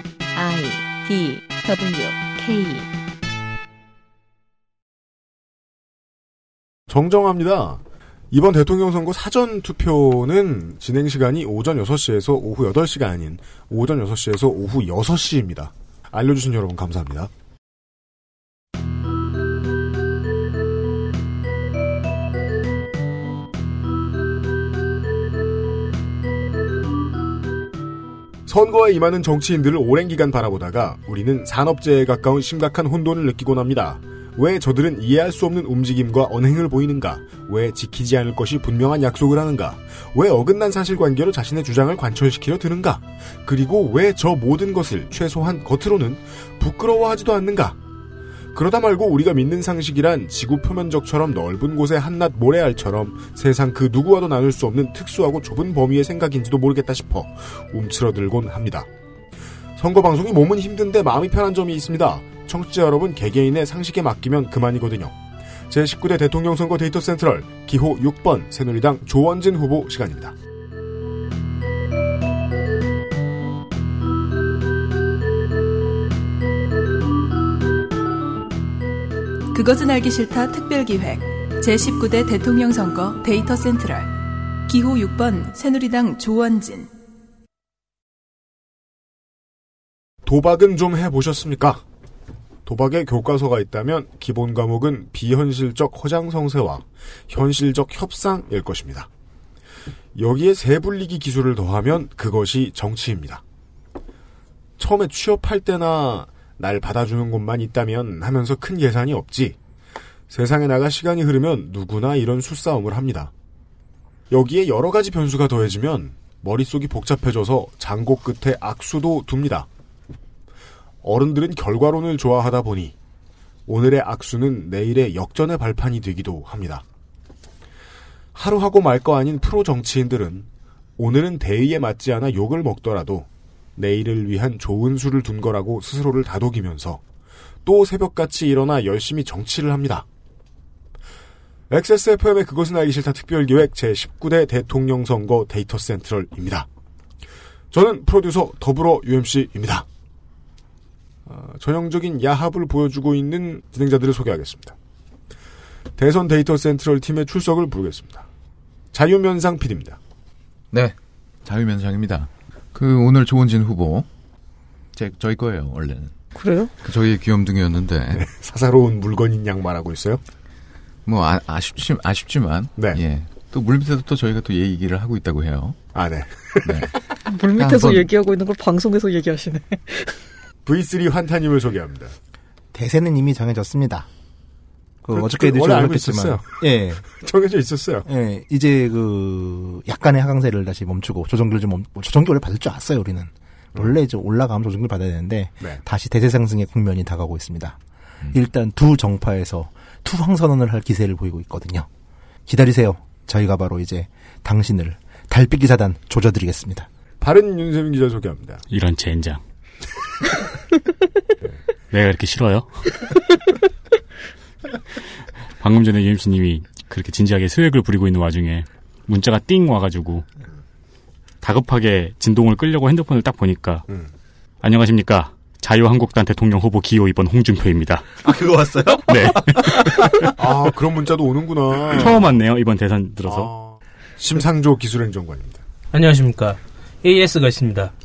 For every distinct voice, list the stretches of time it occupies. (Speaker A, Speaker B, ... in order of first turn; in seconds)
Speaker A: 0.3-2.9
Speaker B: 6.9-17.3, 28.5-47.8, 48.5-58.9, 59.8-65.2, 65.7-70.3, 90.2-91.8, 92.7-99.1, 100.2-103.4, 104.8-109.6, 110.3-113.3, 114.3-119.7, 121.0-122.9, 123.7-126.8, 128.3-130.5, 131.0-137.0, 137.7-140.1, 141.7-146.7, 147.7-149.8, 151.3-154.8, 156.0-158.3, 158.9-160.0, 168.2-170.2, 172.8-173.0, 175.9-176.8, 180.7-182.1, 185.1-186.5, 187.1-188.1, 207.2-208.6, 230.3-232.3, 233.3-235.6
Speaker C: 79.5-84.2, 84.7-86.9
Speaker D: 160.7-164.1, 164.9-166.1, 166.8-168.3, 171.1-175.8, 176.6-176.9, 177.6-178.1
Speaker E: 166.4-166.7, 177.3-180.2
Speaker F: 182.7-184.1, 185.0-187.0, 188.1-197.8, 198.3-201.9, 202.5-206.9, 228.2-230.3
Speaker G: 208.7-209.4, 211.9-213.0, 215.6-220.2, 221.4-223.8, 224.6-228.2, 229.1-230.3, 231.9-233.5
Speaker H: 235.9-237.9